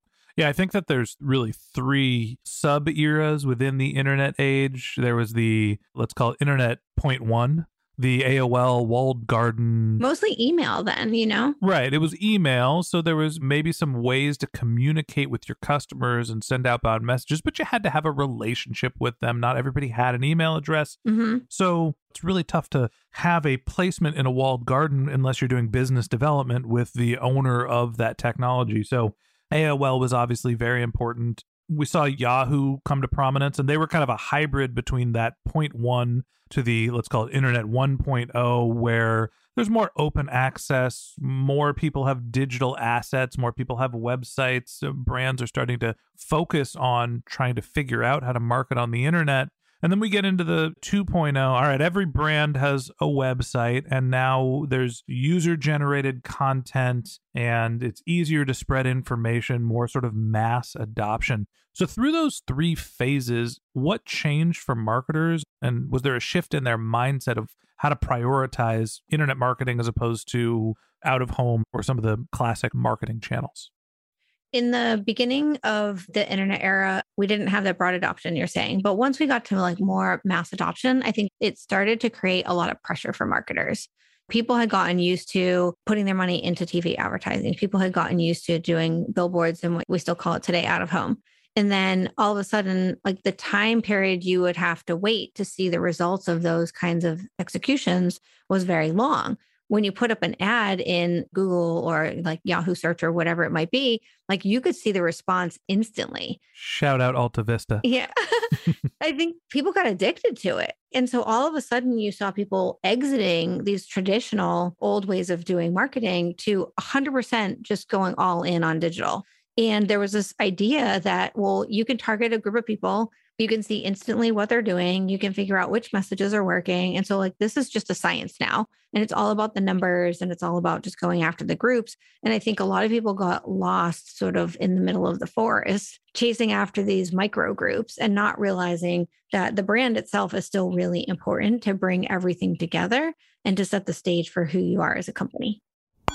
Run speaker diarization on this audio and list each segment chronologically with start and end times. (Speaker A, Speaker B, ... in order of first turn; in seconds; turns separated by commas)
Speaker A: 0.4-10.0, Speaker B: 10.0-11.6, Speaker A: 11.6-21.0, Speaker B: 21.1-21.4, Speaker A: 21.5-73.7, Speaker B: 74.5-106.4, Speaker A: 106.6-107.8, Speaker B: 107.8-145.6